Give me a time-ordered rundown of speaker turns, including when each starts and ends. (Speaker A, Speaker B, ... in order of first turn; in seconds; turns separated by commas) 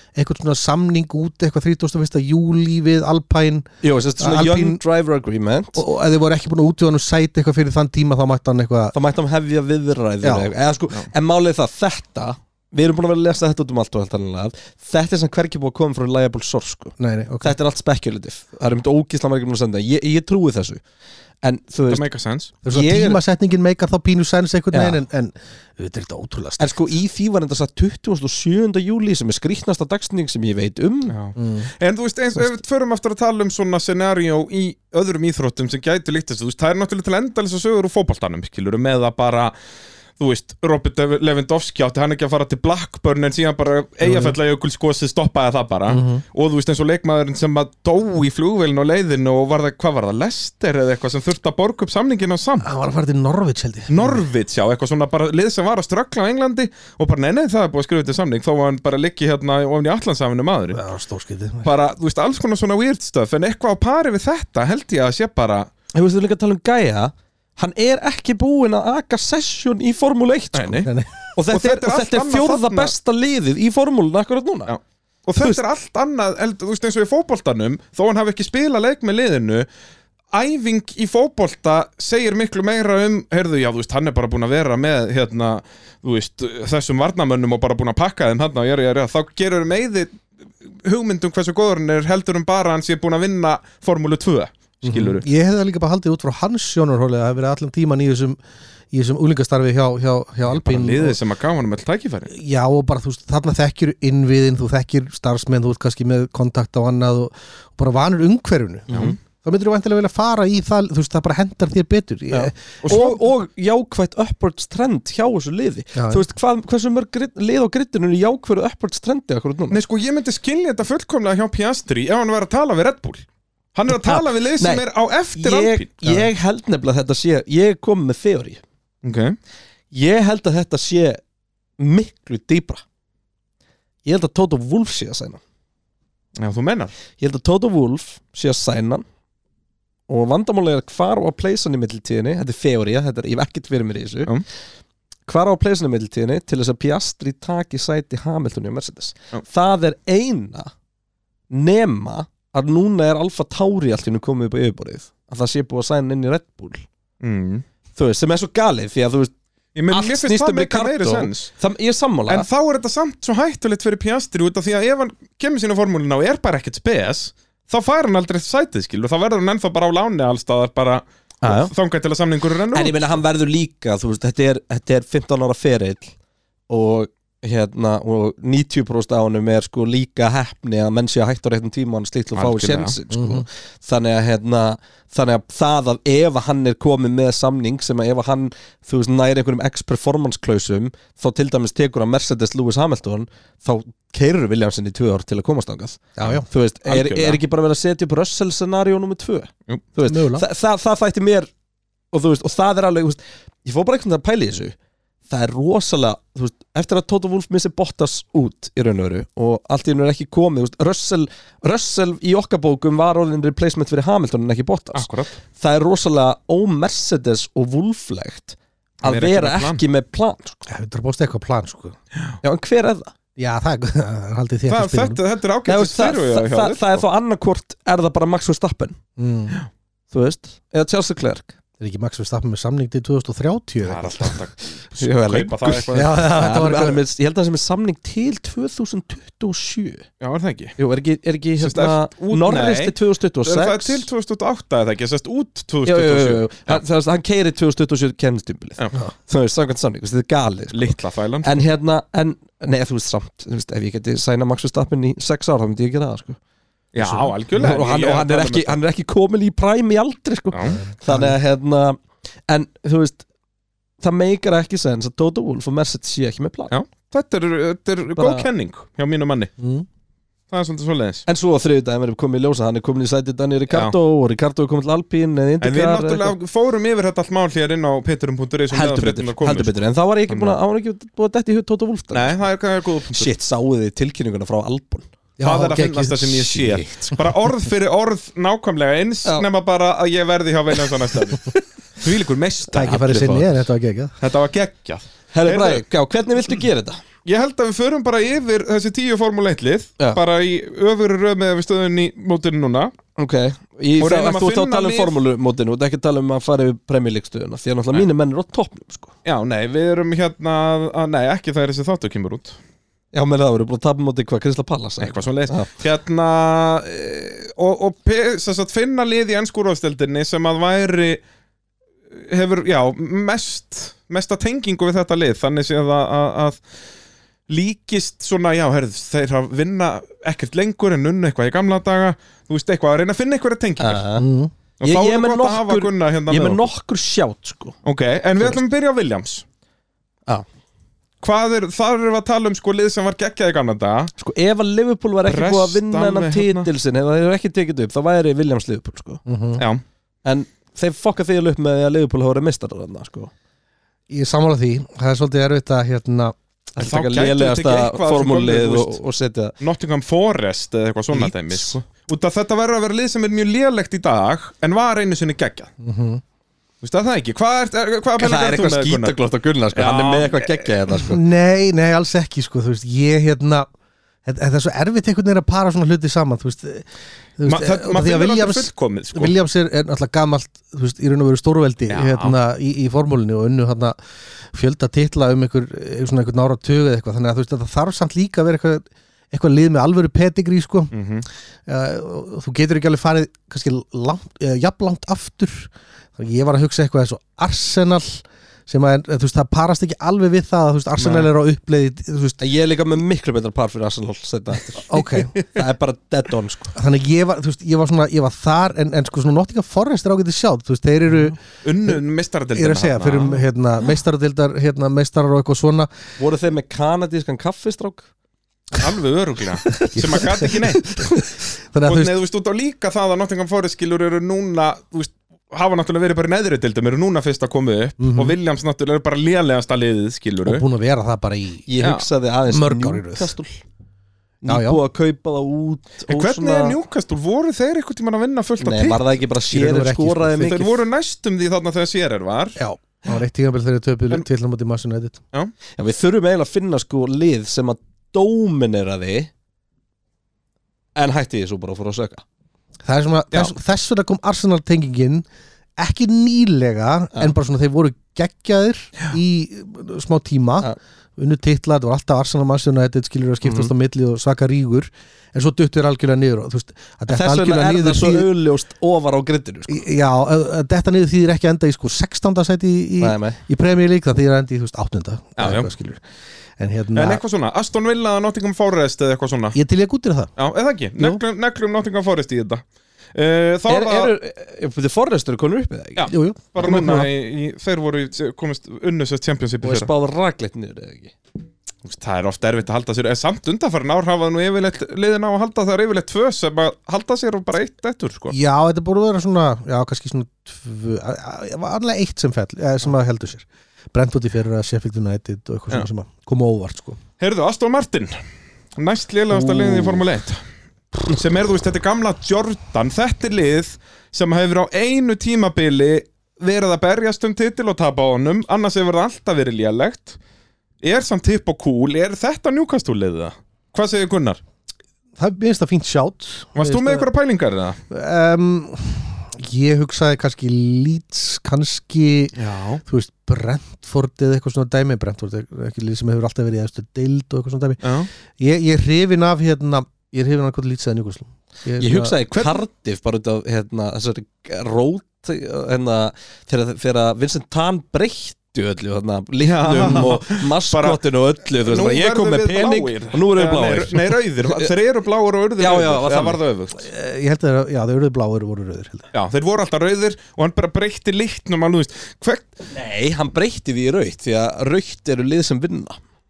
Speaker A: 0.1-4.8, Speaker B: 3.8-5.8, Speaker A: 5.8-8.9, Speaker B: 8.9-20.8, Speaker A: 10.2-10.5, Speaker A: 17.0-17.6, Speaker B: 21.4-22.1, Speaker C: 21.9-22.5, Speaker A: 22.6-26.7, Speaker B: 22.7-23.2, Speaker B: 24.7-25.0, Speaker B: 26.6-31.2, Speaker C: 31.1-39.5, Speaker A: 31.4-31.7, Speaker C: 40.2-52.7, Speaker A: 44.0-44.4, Speaker A: 45.9-46.2, Speaker A: 52.6-54.3, Speaker C: 53.9-60.8, Speaker A: 60.7-61.7, Speaker C: 61.6-65.7, Speaker B: 65.9-74.7, Speaker C: 70.5-70.9, Speaker A: 70.9-71.1, Speaker C: 71.5-72.9, Speaker C: 74.7-79.7, Speaker C: 80.3-90.2, Speaker C: 90.8-95.2, Speaker A: 94.8-98.4, Speaker A: 98.9-101.2, Speaker C: 100.5-102.3, Speaker A: 102.3-113.0, Speaker B: 108.9-109.2, Speaker B: 112.3-119.8, Speaker C: 112.8-113.2, Speaker A: 116.0-116.2, Speaker C: 119.7-125.9, Speaker B: 123.9-128.6, Speaker C: 129.0-129.4, Speaker B: 129.9-131.2, Speaker B: 131.8-132.8, Speaker B: 134.1-135.4, Speaker C: 136.4-136.9, Speaker B: 137.2-139.1, Speaker B: 140.1-144.3, Speaker B: 145.3-150.7, Speaker B: 151.5-156.8, Speaker C: 157.2-157.7, Speaker B: 158.0-159.3, Speaker C: 159.8-161.5, Speaker B: 159.9-162.5, Speaker C: 162.3-173.2, Speaker B: 171.4-171.7, Speaker B: 172.7-176.2, Speaker B: 176.7-201.5, Speaker C: 182.3-183.0, Speaker A: 183.1-183.4, Speaker A: 196.2-196.5, Speaker C: 196.2-197.4, Speaker A: 200.1-200.4, Speaker B: 202.1-204.8, Speaker B: 205.3-220.6, Speaker C: 214.9-215.4, Speaker C: 219.0-219.8, Speaker A: 220.7-222.0, Speaker B: 222.4-223.1, Speaker A: 223.4-225.2, Speaker C: 224.7-227.0, Speaker B: 225.7-229.0, Speaker A: 229.2-229.6, Speaker B: 230.1-231.5, Speaker A: 231.8-234.4, Speaker C: 233.8-236.2, Speaker B: 234.9-240.1, Speaker A: 235.9-237.0, Speaker C: 240.2-240.8, Speaker B: 240.8-244.1, Speaker C: 241.6-246.8, Speaker B: 245.8-256.4, Speaker C: 250.7-251.6, Speaker C: 256.9-258.8, Speaker B: 257.0-263.2, Speaker C: 260.5-260.8, Speaker A: 261.0-261.4, Speaker B: 264.0-266.7, Speaker C: 266.7-269.5, Speaker B: 268.2-268.5, Speaker A: 269.6-269.9, Speaker C: 270.5-271.3, Speaker B: 271.3-276.4, Speaker C: 273.7-274.0, Speaker C: 275.6-279.8, Speaker B: 278.7-282.4, Speaker C: 280.3-280.6, Speaker C: 282.1-283.3, Speaker B: 283.1-285.1, Speaker A: 285.4-287.2, Speaker C: 285.4-293.4, Speaker A: 292.7-294.1, Speaker C: 294.2-295.8, Speaker B: 295.3-297.0, Speaker C: 297.2-302.9, Speaker B: 303.2-309.1, Speaker C: 304.0-305.2, Speaker C: 309.2-312.6, Speaker B: 313.1-315.7, Speaker C: 315.0-321.2, Speaker C: 322.1-326.6, Speaker C: 327.5-334.0, Speaker B: 333.8-334.3, Speaker A: 334.2-334.5, Speaker C: 334.8-336.7, Speaker B: 334.8-337.8, Speaker C: 337.9-339.4, Speaker C: 341.2-344.1, Speaker B: 344.2-349.2, Speaker C: 345.3-346.7, Speaker A: 349.3-349.6, Speaker B: 350.2-353.3, Speaker A: 354.1-356.4, Speaker B: 356.8-359.6, Speaker C: 356.8-359.0, Speaker C: 359.6-365.7, Speaker B: 361.1-361.8, Speaker A: 365.8-366.2, Speaker C: 366.8-369.2, Speaker B: 368.2-371.2, Speaker C: 369.8-370.7, Speaker A: 371.0-373.7, Speaker A: 374.2-384.0, Speaker C: 377.5-379.4, Speaker C: 381.9-382.4, Speaker A: 384.5-390.9, Speaker C: 390.9-391.3, Speaker A: 391.7-402.4, Speaker B: 402.4-406.7, Speaker A: 404.9-405.4, Speaker A: 406.8-412.0, Speaker C: 411.6-413.4, Speaker A: 412.6-415.9, Speaker B: 416.2-418.1, Speaker C: 418.8-421.1, Speaker A: 419.8-421.1, Speaker A: 421.7-422.1, Speaker C: 421.9-430.6, Speaker A: 428.0-428.4, Speaker A: 430.4-431.7, Speaker B: 431.7-433.6, Speaker C: 431.8-432.1, Speaker A: 432.5-433.3, Speaker B: 434.4-436.8, Speaker A: 434.5-434.8, Speaker C: 436.1-439.1, Speaker B: 438.6-440.8, Speaker A: 439.5-440.6, Speaker C: 440.4-442.6, Speaker A: 442.6-445.2, Speaker B: 445.8-449.3, Speaker B: 451.0-452.2, Speaker A: 452.9-455.3, Speaker A: 455.8-468.3, Speaker B: 463.4-463.7, Speaker B: 467.1-469.8, Speaker A: 469.7-476.0, Speaker B: 473.0-473.4, Speaker C: 475.4-475.7, Speaker A: 476.6-477.2, Speaker C: 476.9-479.6, Speaker A: 479.5-480.3, Speaker C: 480.4-482.6, Speaker C: 483.1-484.1, Speaker B: 483.7-486.1, Speaker C: 486.0-489.9, Speaker A: 486.1-487.1, Speaker B: 489.6-491.1, Speaker C: 491.9-498.4, Speaker A: 498.3-507.0, Speaker C: 507.2-508.2, Speaker C: 508.8-510.4, Speaker A: 509.5-509.9, Speaker C: 511.1-520.2, Speaker C: 520.8-524.4, Speaker A: 525.2-527.1, Speaker C: 526.5-527.8, Speaker A: 527.9-542.5, Speaker C: 532.4-532.8, Speaker C: 537.8-538.1, Speaker B: 541.8-554.7, Speaker C: 549.4-551.0, Speaker A: 549.8-550.1, Speaker C: 551.6-556.9, Speaker B: 555.6-556.4, Speaker A: 556.8-559.1, Speaker C: 559.1-562.6, Speaker B: 562.7-566.0